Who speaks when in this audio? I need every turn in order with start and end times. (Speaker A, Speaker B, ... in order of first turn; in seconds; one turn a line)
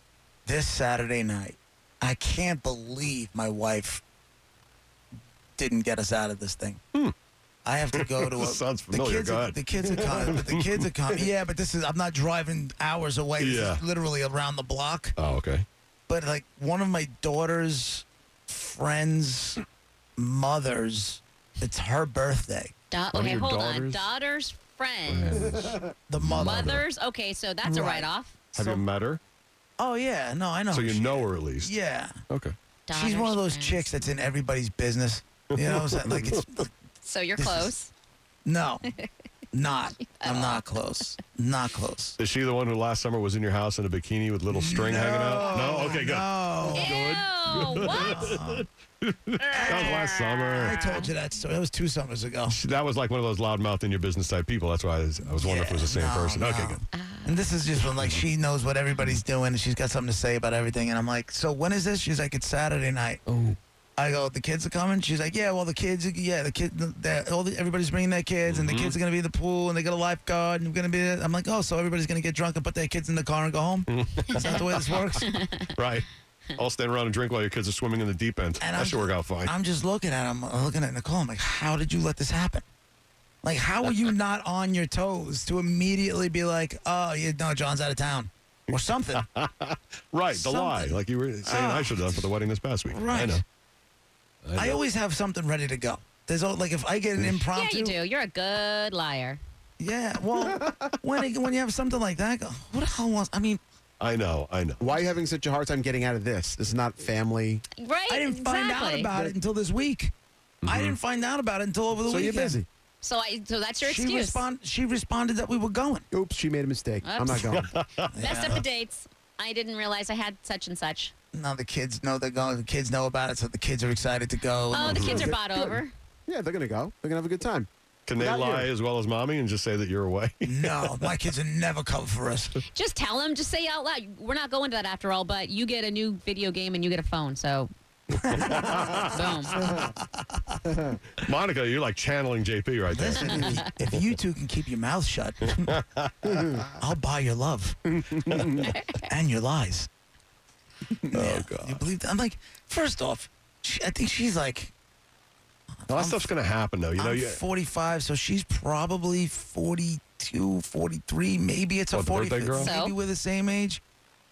Speaker A: 0.5-4.0
Speaker A: 5.6-6.8
Speaker A: 7.7-15.2
Speaker B: 7.9-10.9
Speaker B: 13.4-13.8
Speaker B: 15.2-15.7
Speaker A: 16.1-19.6
Speaker A: 20.2-22.7
Speaker C: 22.9-25.6
Speaker B: 23.1-24.1
Speaker B: 25.1-26.9
Speaker A: 26.1-26.6
Speaker C: 26.4-28.5
Speaker A: 27.6-28.8
Speaker B: 28.6-29.2
Speaker A: 29.8-32.2
Speaker B: 30.7-31.8
Speaker B: 32.3-32.5
Speaker C: 32.9-33.9
Speaker A: 32.9-36.7
Speaker B: 35.5-36.4
Speaker C: 37.0-37.9
Speaker A: 37.4-37.7
Speaker A: 38.5-38.9
Speaker A: 39.5-42.2
Speaker C: 40.2-40.8
Speaker B: 42.2-50.8
Speaker A: 44.5-46.9
Speaker C: 46.8-48.4
Speaker A: 47.8-48.7
Speaker C: 49.4-51.1
Speaker A: 49.5-50.1
Speaker A: 50.6-52.6
Speaker B: 52.5-56.8
Speaker A: 55.3-63.2
Speaker C: 56.9-57.5
Speaker B: 57.8-58.2
Speaker B: 63.3-63.5
Speaker A: 64.0-75.3
Speaker B: 68.5-69.0
Speaker B: 73.9-75.1
Speaker C: 75.2-75.5
Speaker B: 75.8-79.5
Speaker A: 78.6-82.6
Speaker A: 83.4-89.2
Speaker B: 88.7-93.4
Speaker A: 90.3-92.2
Speaker A: 92.9-93.4
Speaker B: 94.4-94.8
Speaker A: 94.6-98.0
Speaker C: 97.5-99.4
Speaker A: 99.8-103.6
Speaker D: 100.4-101.0
Speaker B: 104.0-104.9
Speaker D: 104.8-107.6
Speaker C: 107.8-109.1
Speaker A: 108.1-110.1
Speaker B: 110.6-111.0
Speaker A: 110.7-112.6
Speaker D: 112.1-112.7
Speaker C: 113.0-114.4
Speaker A: 113.8-116.1
Speaker D: 116.1-117.7
Speaker C: 117.0-117.7
Speaker B: 117.5-118.6
Speaker A: 118.1-118.6
Speaker C: 118.2-121.1
Speaker A: 121.3-125.3
Speaker C: 124.7-125.9
Speaker B: 124.8-125.3
Speaker D: 125.0-128.7
Speaker B: 128.1-130.7
Speaker A: 130.5-132.6
Speaker C: 132.7-137.7
Speaker A: 138.3-138.6
Speaker B: 138.3-139.8
Speaker C: 139.1-139.6
Speaker A: 139.6-140.6
Speaker B: 141.2-143.6
Speaker A: 142.9-145.7
Speaker C: 143.2-143.6
Speaker B: 145.5-146.6
Speaker A: 146.8-147.8
Speaker D: 148.1-148.4
Speaker B: 148.3-148.7
Speaker C: 148.6-149.1
Speaker A: 149.1-149.9
Speaker A: 151.1-154.7
Speaker B: 151.1-151.8
Speaker A: 155.8-156.3
Speaker B: 155.9-157.4
Speaker A: 157.0-163.8
Speaker B: 161.9-162.7
Speaker C: 162.6-163.0